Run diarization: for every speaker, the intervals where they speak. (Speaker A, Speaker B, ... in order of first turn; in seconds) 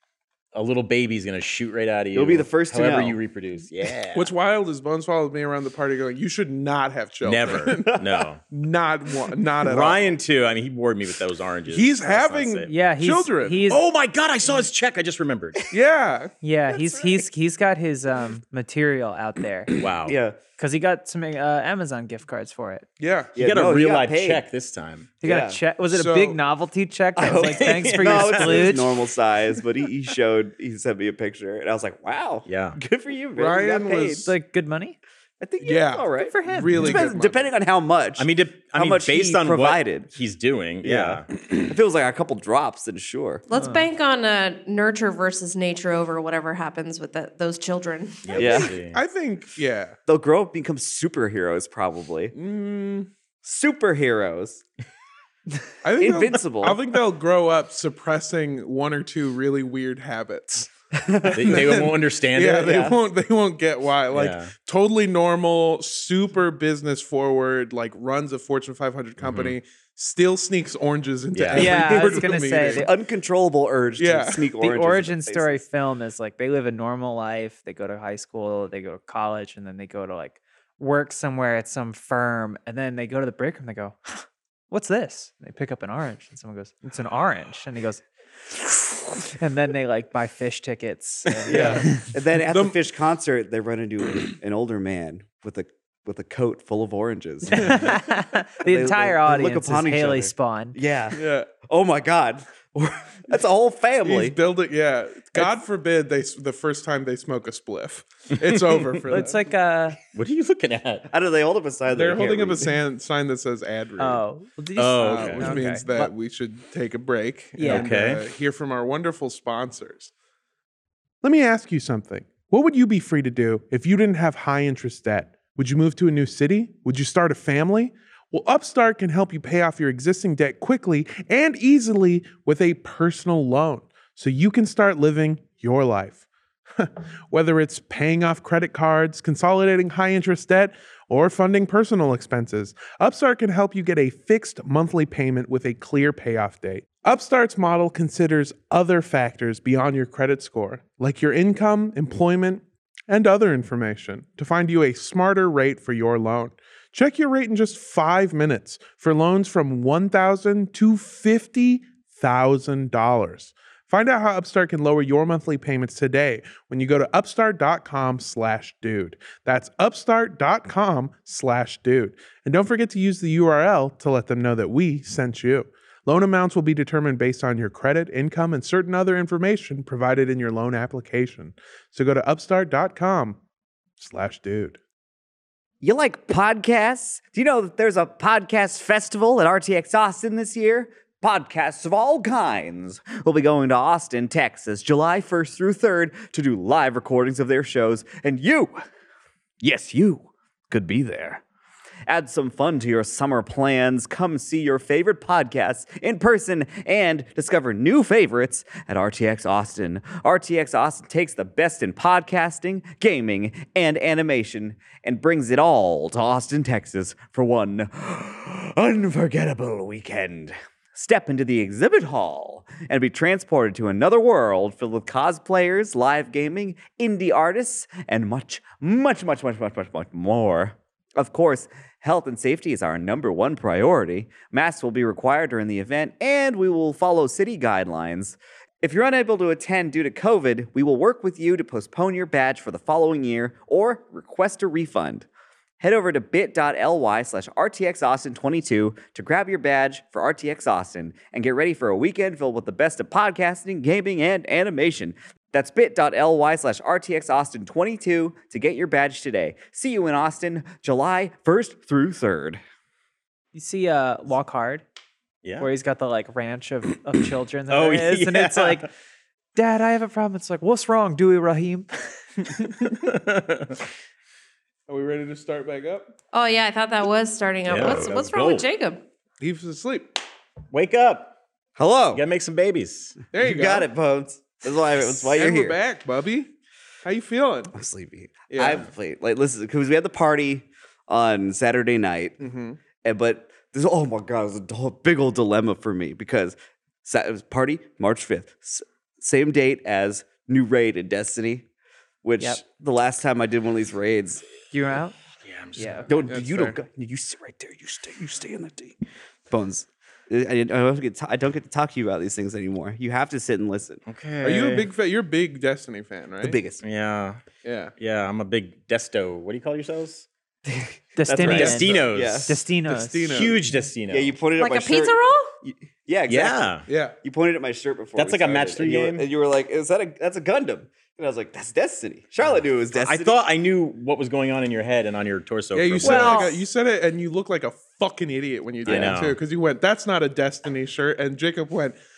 Speaker A: 0.5-4.3, 7.2-8.4, 9.6-12.7, 13.7-15.7, 19.7-20.2, 23.4-25.1, 27.3-28.8, 32.5-32.8, 38.2-41.3, 48.2-49.0, 61.3-62.9, 64.1-64.5, 69.2-69.5, 71.3-71.8, 108.4-109.0, 110.1-111.1, 114.8-115.7, 117.6-118.2, 267.7-268.9, 272.9-273.8, 277.7-278.7, 280.7-281.4, 282.1-283.2, 305.4-306.1, 314.1-314.9, 316.8-317.4, 318.0-320.3, 321.4-322.6, 323.3-324.4, 326.3-326.9, 328.2-329.3, 332.9-336.5, 338.9-339.4
Speaker B: 2.1-3.2, 7.7-8.0, 20.1-20.4, 23.4-24.4, 25.2-25.6, 27.2-34.3, 35.4-40.1, 40.8-43.4, 48.3-48.7, 50.1-52.3, 53.4-54.6, 56.0-56.8, 60.9-61.8, 62.6-63.0, 71.7-75.6, 91.5-98.1, 98.6-104.4, 111.1-112.8, 185.8-198.8, 199.6-201.4, 202.1-245.3, 245.8-262.6, 281.8-282.2, 283.4-285.8, 287.7-292.4, 293.0-301.7, 302.2-304.4, 306.1-309.0, 309.5-314.0, 316.4-316.8, 320.7-322.6, 324.1-333.4, 338.9-339.2
Speaker C: 4.1-8.0, 8.5-10.1, 11.7-13.7, 15.7-16.3, 23.0-23.3, 25.9-26.4, 33.4-34.3, 35.6-37.4, 48.3-50.0, 52.3-53.1, 55.8-60.7, 61.2-72.9, 74.0-74.5, 91.5-92.8, 97.6-97.8, 101.1-101.5, 104.0-109.5, 111.9-114.2, 115.0-120.1, 121.2-136.2, 136.8-183.4, 184.0-184.8, 274.9-276.1, 279.4-280.1, 283.3-283.9, 285.2-286.5, 287.0-287.7, 288.5-288.9, 292.4-292.8, 306.3-306.8, 314.4-316.6, 317.6-317.9, 321.5-322.0, 322.9-323.6, 326.9-327.1, 335.7-342.0
Speaker D: 12.7-13.8, 16.4-19.7, 20.6-22.9, 25.2-28.9, 34.2-35.0, 36.2-37.1, 43.5-43.9, 71.5-72.9, 74.6-92.1, 97.5-100.8, 109.1-110.0, 114.0-116.1, 117.6-117.9, 263.5-264.8, 265.6-268.9, 269.6-271.9, 272.4-272.7, 304.7-305.1, 305.8-306.1, 321.2-323.4, 336.0-336.6
Speaker E: 43.5-48.3, 276.3-279.0, 324.6-325.5